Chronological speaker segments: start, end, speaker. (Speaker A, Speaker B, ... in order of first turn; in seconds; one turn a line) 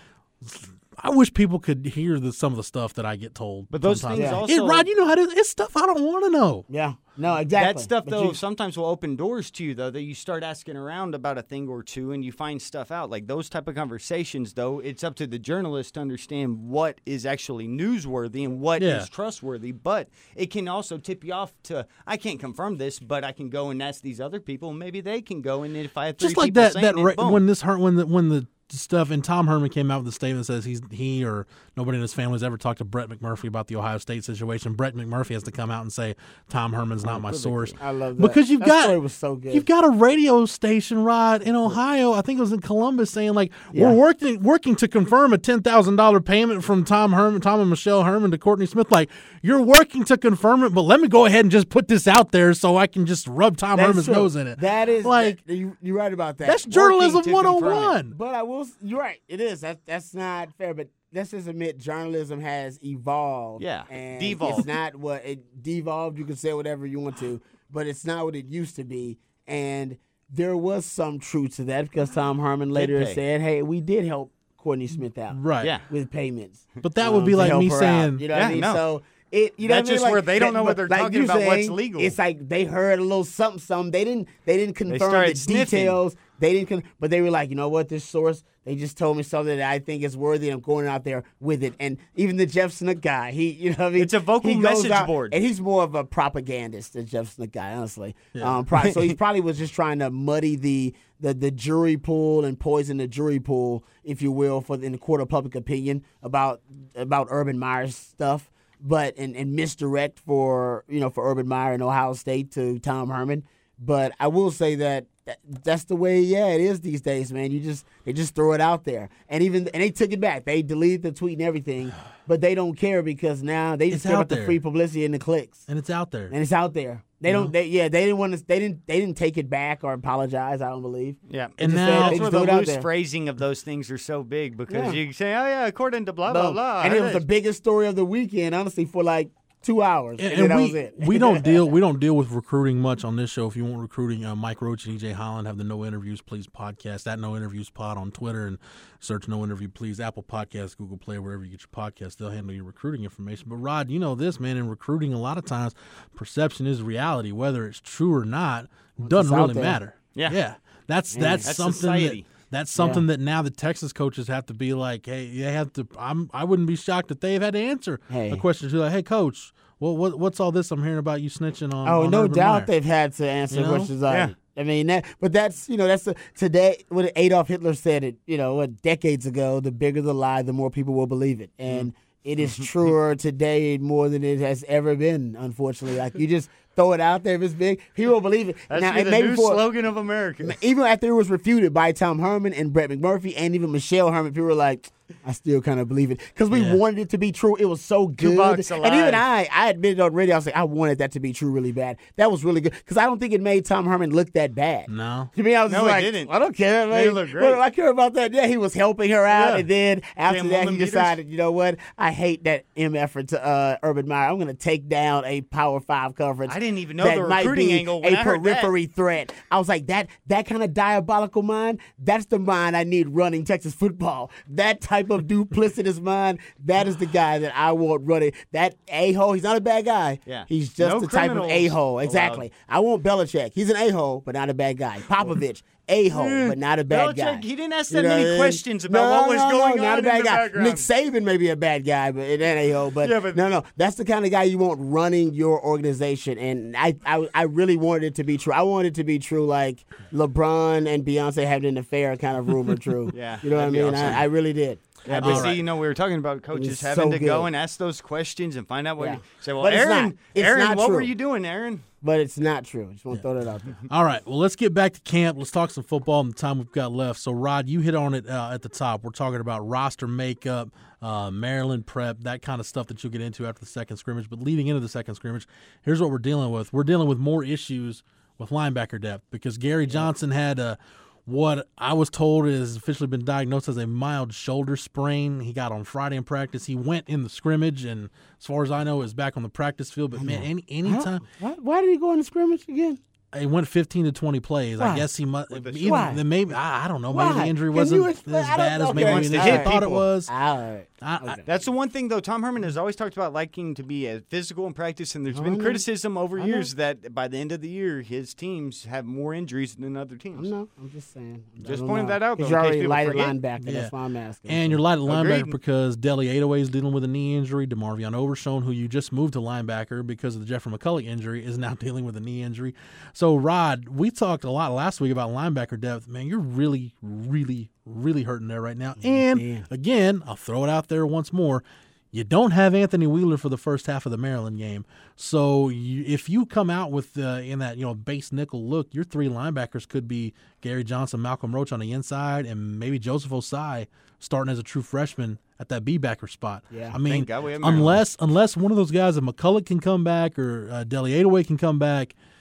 Speaker A: 0.4-6.7
Speaker B: 3.7-4.9
Speaker C: 4.1-4.4
Speaker C: 6.7-8.4
Speaker B: 7.6-27.4
Speaker A: 18.8-19.1
Speaker A: 26.2-39.0
Speaker B: 37.0-37.8
Speaker C: 37.8-39.6
Speaker A: 39.5-55.4
Speaker C: 43.7-44.0
Speaker C: 53.8-56.9
Speaker A: 56.5-58.2
Speaker B: 56.8-57.9
Speaker C: 57.6-125.7
Speaker B: 63.6-64.7
Speaker B: 72.8-73.2
Speaker A: 75.3-75.8
Speaker B: 75.6-75.9
Speaker A: 76.8-78.3
Speaker B: 78.3-78.8
Speaker B: 79.6-82.2
Speaker B: 84.9-86.0
Speaker B: 94.0-95.4
Speaker A: 98.3-98.6
Speaker B: 98.8-99.2
Speaker A: 123.9-124.6
Speaker A: 125.7-126.3
Speaker C: 126.3-132.9
Speaker A: 127.3-127.5
Speaker B: 131.3-137.2
Speaker A: 131.6-132.3
Speaker C: 134.7-135.0
Speaker C: 136.3-141.7
Speaker A: 140.2-172.7
Speaker C: 159.0-159.8
Speaker C: 161.1-161.5
Speaker B: 161.4-162.3
Speaker C: 162.8-163.0
Speaker C: 168.1-168.4
Speaker C: 171.8-189.6
Speaker A: 173.5-173.9
Speaker B: 174.1-174.3
Speaker B: 182.4-182.9
Speaker B: 188.7-190.6
Speaker C: 190.4-255.6
Speaker A: 196.5-196.8
Speaker B: 198.2-199.2
Speaker A: 204.9-205.3
Speaker B: 205.7-206.3
Speaker B: 206.9-207.6
Speaker B: 209.3-209.7
Speaker B: 210.2-211.2
Speaker B: 216.5-218.7
Speaker B: 230.3-232.5
Speaker B: 236.1-240.9
Speaker B: 243.0-243.4
Speaker B: 253.1-254.3
Speaker B: 255.1-261.9
Speaker A: 255.2-255.6
Speaker C: 256.5-257.5
Speaker C: 259.0-261.1
Speaker C: 262.0-263.8
Speaker A: 263.9-291.2
Speaker C: 290.1-293.0
Speaker A: 293.3-300.3
Speaker C: 294.8-295.1
Speaker B: 295.5-296.1
Speaker C: 295.8-296.2
Speaker C: 297.1-301.5
Speaker B: 298.9-299.9
Speaker A: 301.0-301.4
Speaker B: 301.5-310.5
Speaker C: 305.3-305.8
Speaker C: 306.4-306.7
Speaker C: 310.4-314.8
Speaker B: 311.6-313.4
Speaker A: 313.6-313.9
Speaker A: 314.5-352.1
Speaker B: 315.1-315.6
Speaker C: 329.0-329.7
Speaker C: 346.7-347.0
Speaker B: 347.1-348.0